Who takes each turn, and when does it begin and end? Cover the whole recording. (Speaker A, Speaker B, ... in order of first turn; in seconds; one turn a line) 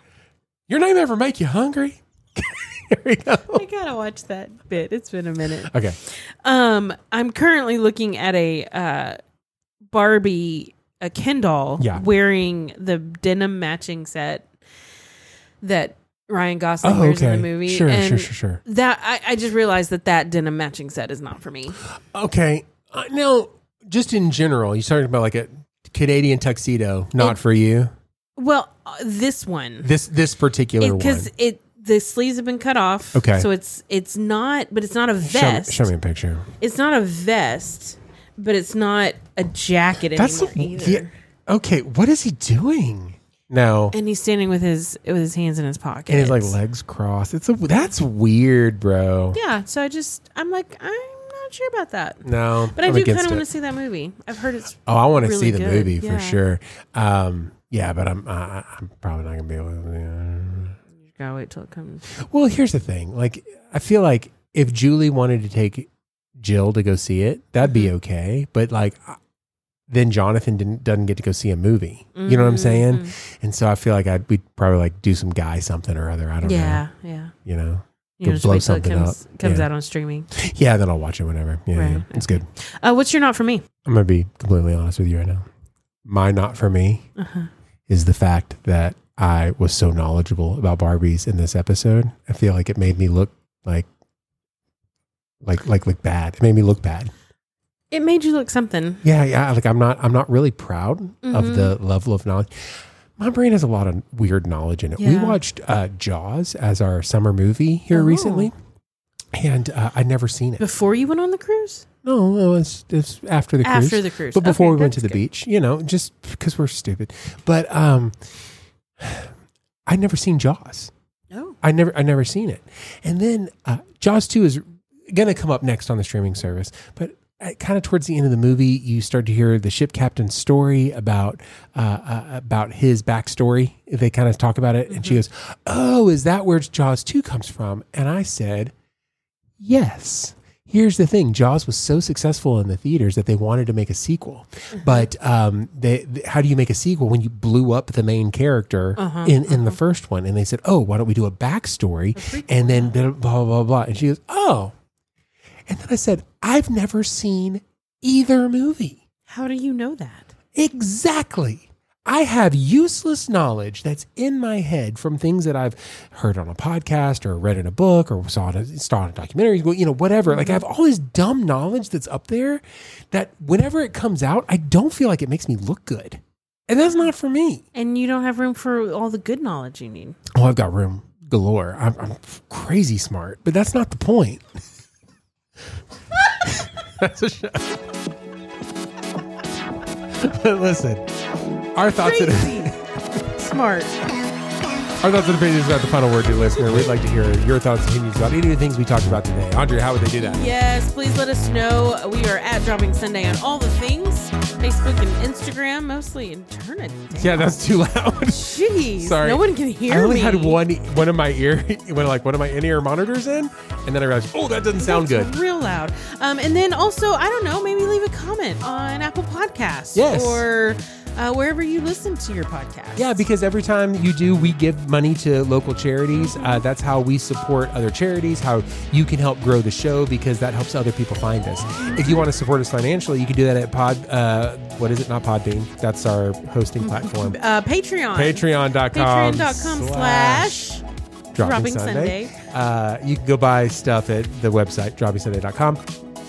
Speaker A: 0.7-3.6
Speaker B: 3.5-9.2
Speaker A: 5.6-6.0
Speaker B: 9.9-14.5
Speaker A: 11.8-12.0
Speaker B: 15.6-21.8
Speaker A: 16.8-18.6
Speaker A: 22.1-27.9
Speaker B: 28.4-29.9
Speaker A: 29.8-31.3
Speaker B: 30.8-35.9
Speaker A: 33.1-33.5
Speaker A: 35.2-36.5
Speaker B: 36.6-41.1
Speaker A: 40.1-43.9
Speaker B: 43.9-46.6
Speaker A: 46.1-49.4
Speaker B: 49.3-56.4
Speaker A: 52.2-53.4
Speaker A: 54.9-60.8
Speaker B: 61.0-62.1
Speaker A: 62.1-69.2
Speaker B: 67.6-67.9
Speaker A: 69.9-76.8
Speaker B: 72.1-73.1
Speaker B: 76.4-77.3
Speaker A: 77.4-79.7
Speaker B: 78.2-80.3
Speaker A: 80.3-82.4
Speaker B: 81.7-83.7
Speaker A: 83.8-85.5
Speaker A: 86.0-87.1
Speaker B: 87.2-87.5
Speaker A: 87.9-93.9
Speaker A: 95.4-97.1
Speaker B: 97.9-99.0
Speaker A: 99.0-108.5
Speaker B: 101.2-101.7
Speaker B: 105.0-105.4
Speaker B: 107.9-108.5
Speaker A: 109.3-110.6
Speaker B: 110.6-111.8
Speaker A: 112.0-118.2
Speaker B: 113.6-115.2
Speaker A: 119.0-119.3
Speaker A: 119.8-120.9
Speaker B: 121.3-121.6
Speaker A: 121.6-138.7
Speaker B: 134.9-135.2
Speaker A: 139.6-154.7
Speaker B: 144.7-145.1
Speaker B: 149.0-149.8
Speaker B: 152.1-152.9
Speaker A: 155.7-159.0
Speaker B: 159.3-160.3
Speaker A: 160.5-177.6
Speaker B: 170.3-170.6
Speaker B: 177.7-180.2
Speaker A: 180.3-184.4
Speaker A: 186.2-187.8
Speaker A: 190.1-191.0
Speaker A: 191.7-192.8
Speaker B: 191.9-192.8
Speaker B: 193.3-194.0
Speaker A: 195.0-200.4
Speaker B: 200.2-207.5
Speaker A: 207.1-215.3
Speaker B: 208.3-210.6
Speaker B: 214.8-223.2
Speaker A: 219.9-220.4
Speaker A: 223.0-237.4
Speaker B: 231.8-232.2
Speaker B: 236.8-240.8
Speaker A: 238.1-240.7
Speaker A: 241.3-245.8
Speaker B: 241.4-242.4